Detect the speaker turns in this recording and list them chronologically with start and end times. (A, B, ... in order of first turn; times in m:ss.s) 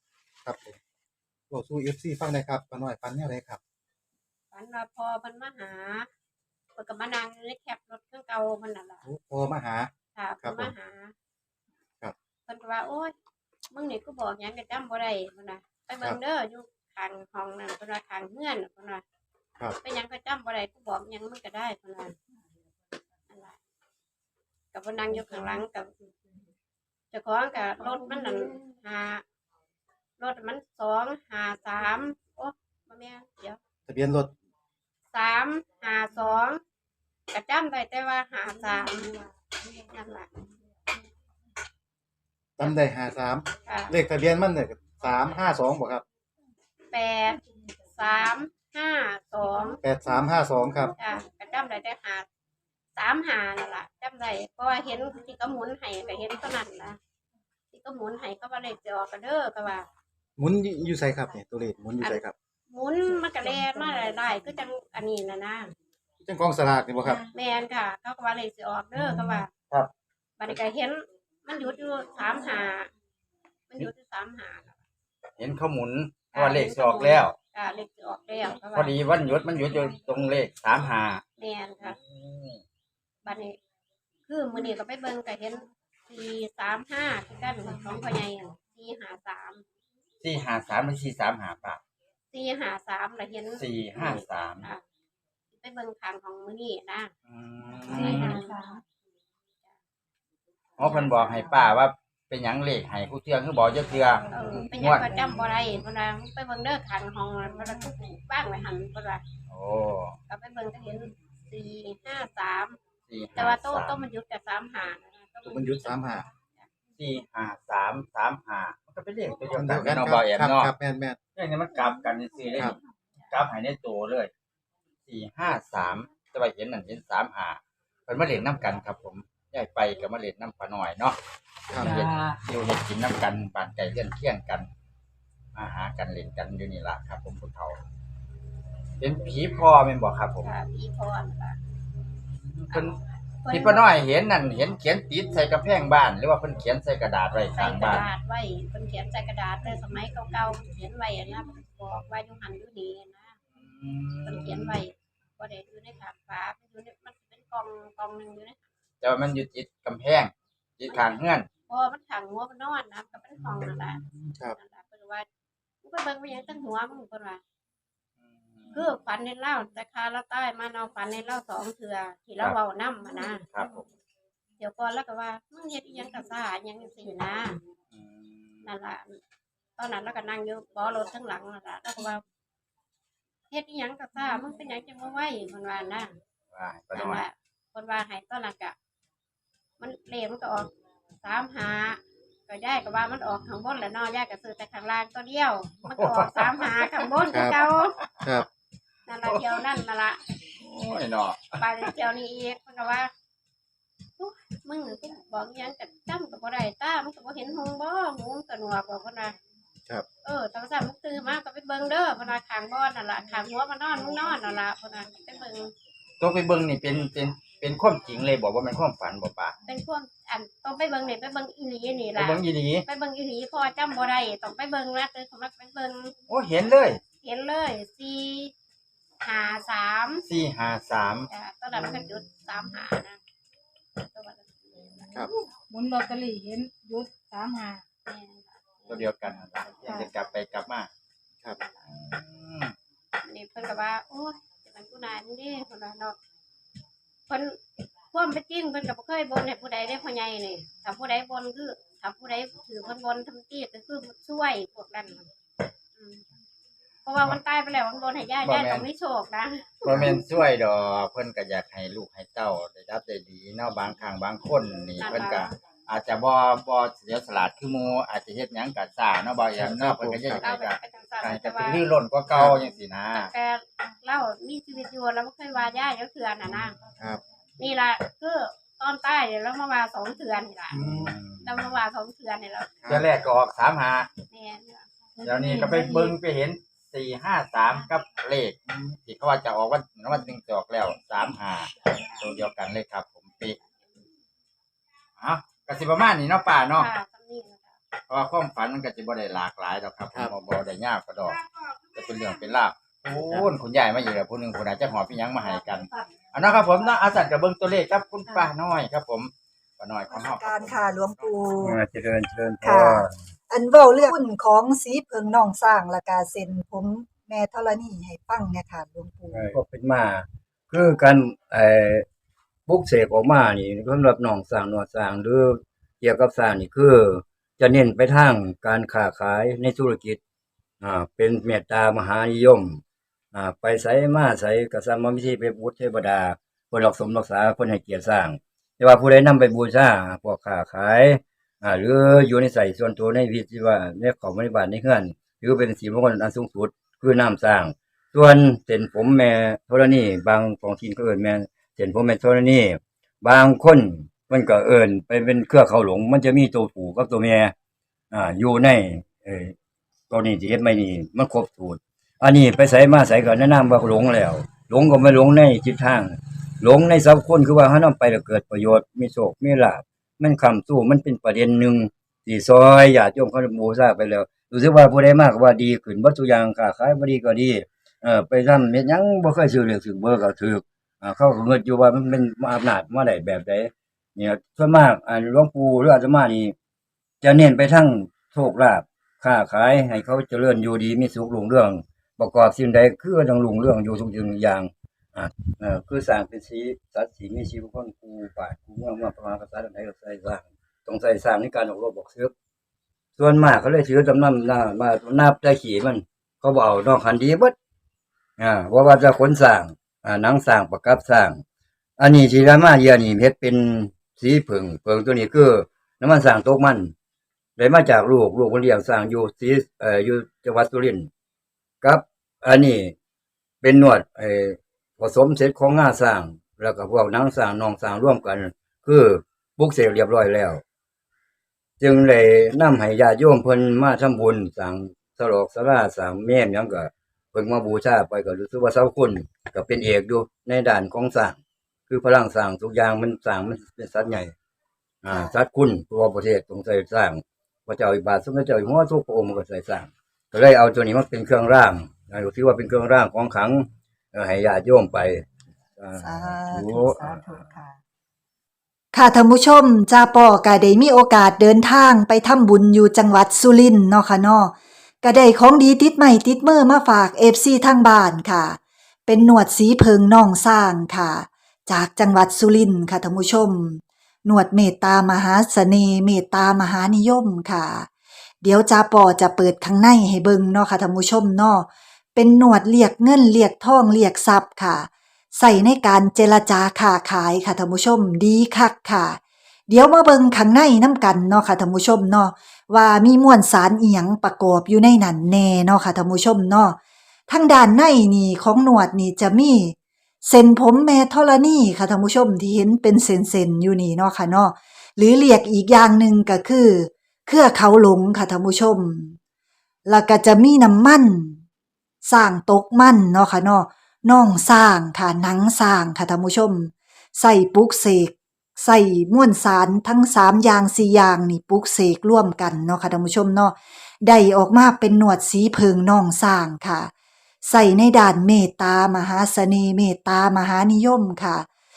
0:00.4-0:00.8 A
0:01.5-0:03.6 A
0:04.5-0:06.1 B
0:06.8-0:09.0 B
0:09.1-0:09.9 A
0:10.2-0:11.1 B
0:10.4-0:10.7 A
0:12.5-0:13.1 B
0:13.7-0:19.0 B
0:19.8-0:22.2 B
0:23.3-0:23.6 B
0:24.7-0:25.9 B
0:27.1-0:29.2 B
0:30.2-0:33.6 B
0:33.9-0:34.3 A
0:35.1-0:36.6 B
0:37.3-0:40.4 B
0:42.6-0:46.0 A
0:43.6-0:43.9 B
0:46.9-0:49.8 B
0:49.8-0:50.9 A
0:51.0-0:52.3 B
0:53.0-0:57.0 B
0:57.7-0:59.9 B
1:00.4-1:02.3 A
1:02.0-1:05.7 B
1:06.2-1:07.2 A
1:07.3-1:09.5 B
1:10.4-1:12.9 B
1:13.7-1:14.8 B
1:15.4-1:17.4 C
1:16.3-1:18.9 B
1:18.7-1:21.2 C
1:21.4-1:22.0 B
1:21.8-1:22.6 C
1:23.2-1:23.6 B
1:24.3-1:29.6 B
1:30.2-1:31.8 C
1:32.3-1:34.8 B
1:33.6-1:34.7 C
1:35.5-1:37.1 B
1:37.3-1:38.4 C
1:37.9-1:38.8 D
1:37.9-1:38.6 B
1:40.8-1:45.1 C
1:44.3-1:49.2 B
1:44.5-1:45.4 D
1:49.5-1:50.2 C
1:50.3-1:52.8 B
1:53.1-1:54.0 C
1:53.4-1:56.7 B
1:55.4-1:56.2 A
1:57.0-2:00.7 C
1:59.4-2:01.2 A
2:01.4-2:02.8 C
2:03.3-2:04.3 C
2:05.1-2:11.2 C
2:11.7-2:12.1 A
2:11.8-2:14.7 C
2:15.6-2:17.8 C
2:19.0-2:20.5 C
2:20.4-2:21.6 B
2:22.0-2:23.0 C
2:22.7-2:23.8 B
2:23.5-2:28.1 C
2:27.6-2:33.4 B
2:33.6-2:34.8 C
2:34.3-2:38.7 B
2:39.0-2:41.5 C
2:41.7-2:44.0 B
2:44.3-2:44.6 A
2:44.6-2:45.3 B
2:45.8-2:47.4 B
2:48.3-2:48.8 C
2:48.7-2:53.4 B
2:53.5-2:53.9 C
2:54.6-2:57.6 B
2:57.9-2:58.7 C
2:58.6-2:59.2 B
2:59.8-3:02.2 B
3:03.5-3:06.1 B
3:06.5-3:07.2 C
3:06.9-3:08.8 B
3:09.8-3:18.0 B
3:15.9-3:17.3 C
3:18.0-3:18.4 C
3:19.1-3:20.2 B
3:19.3-3:19.6 C
3:20.5-3:21.6 C
3:21.6-3:23.1 B
3:24.2-3:29.4 B
3:30.2-3:35.7 B
3:36.2-3:39.6 C
3:39.7-3:46.1 B
3:42.2-3:42.8 C
3:46.3-3:47.0 C
3:47.2-3:48.5 B
3:49.2-3:50.2 B
3:50.2-3:51.3 C
3:51.3-3:53.2 B
3:54.0-3:55.2 B
3:55.2-3:57.8 D
3:58.1-4:00.0 B
3:58.9-4:00.9 C
4:01.8-4:02.7 C
4:03.2-4:06.2 B
4:07.3-4:07.6 B
4:08.1-4:15.3 B
4:16.0-4:16.2 B
4:17.0-4:19.9 B
4:18.4-4:18.9 C
4:19.8-4:33.3 C
4:19.9-4:20.2 A
4:25.0-4:25.5 B
4:29.6-4:30.4 A
4:30.4-4:31.9 B
4:33.1-4:36.8 B
4:37.6-4:40.8 B
4:40.7-4:41.2 A
4:40.8-4:41.7 C
4:41.4-4:42.7 B
4:42.8-4:43.2 A
4:42.9-4:44.1 C
4:44.3-4:44.9 B
4:45.2-4:46.2 D
4:45.2-4:53.6 C
4:55.2-4:56.9 C
4:56.8-4:57.8 B
4:58.1-5:01.4 C
5:01.9-5:11.3 C
5:10.1-5:11.8 E
5:11.6-5:13.2 F
5:12.6-5:19.5 E
5:19.3-5:22.1 F
5:22.7-5:30.2 F
5:30.8-5:32.8 F
5:33.3-5:57.5 F
5:58.1-5:59.6 F
6:00.1-6:26.6 F
6:27.2-6:42.3 F
6:43.2-6:47.6 F
6:48.4-6:51.4 F
6:52.0-6:56.9 F
6:57.6-7:01.1 F
7:01.8-7:03.0 F
7:03.6-7:10.6 F
7:11.8-7:24.3 F
7:25.0-7:35.3 F
7:25.1-7:25.4 E
7:35.8-7:37.5 F
7:36.0-7:37.8 E
7:38.9-7:57.9 E
7:58.4-8:16.8 E
8:17.3-8:29.2 E
8:29.9-8:31.4 E
8:32.0-8:46.9 E
8:47.4-8:51.4 E